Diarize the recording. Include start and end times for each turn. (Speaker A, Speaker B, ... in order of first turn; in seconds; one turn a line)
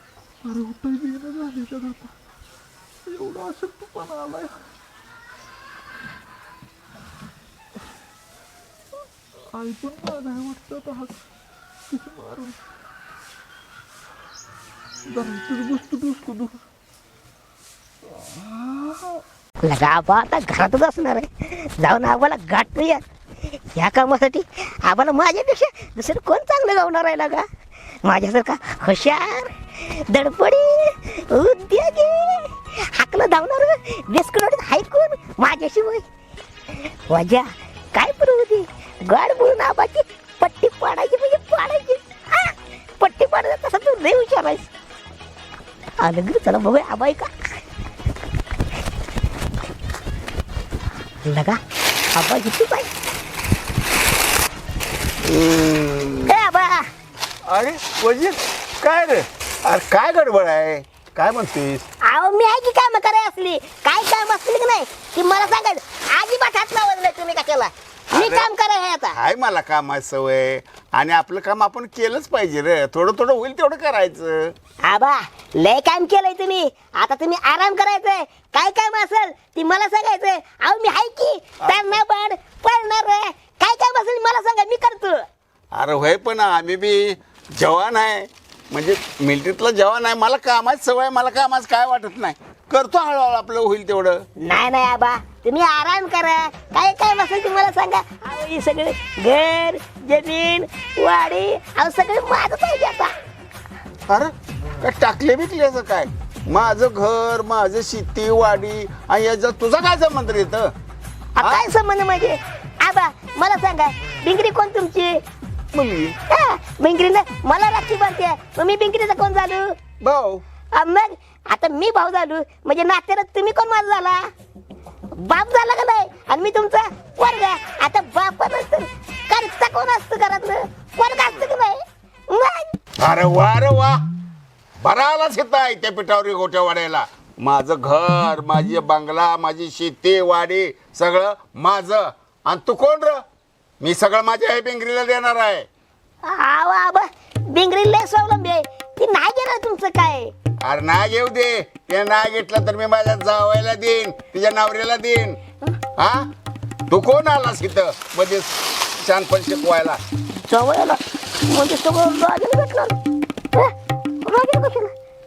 Speaker A: 0.4-2.1
Speaker A: 3.0-4.6
Speaker A: 9.5-11.1
Speaker A: 11.9-12.6
Speaker A: 15.1-16.6
Speaker A: 18.3-19.1
Speaker B: 19.6-23.0
Speaker B: 23.8-27.4
Speaker B: 28.0-36.0
Speaker B: 37.1-44.7
Speaker B: 46.0-47.3
Speaker B: 51.2-51.6
Speaker B: 52.1-52.9
Speaker C: 55.2-56.3
Speaker B: 56.3-56.9
Speaker C: 57.5-61.9
Speaker B: 62.0-69.1
Speaker C: 68.1-68.5
Speaker C: 69.2-74.5
Speaker B: 74.8-85.2
Speaker C: 81.6-81.9
Speaker C: 85.7-94.2
Speaker B: 94.4-103.1
Speaker C: 104.1-110.7
Speaker B: 111.4-115.2
Speaker C: 111.4-111.7
Speaker C: 115.7-116.2
Speaker B: 116.3-119.8
Speaker C: 120.0-120.4
Speaker B: 120.7-124.3
Speaker B: 125.2-132.7
Speaker C: 133.0-134.0
Speaker C: 134.8-143.2
Speaker C: 143.8-145.7
Speaker B: 146.2-150.3
Speaker C: 150.6-155.4
Speaker C: 156.0-156.2
Speaker C: 156.9-160.0
Speaker B: 160.5-162.9
Speaker B: 163.5-164.9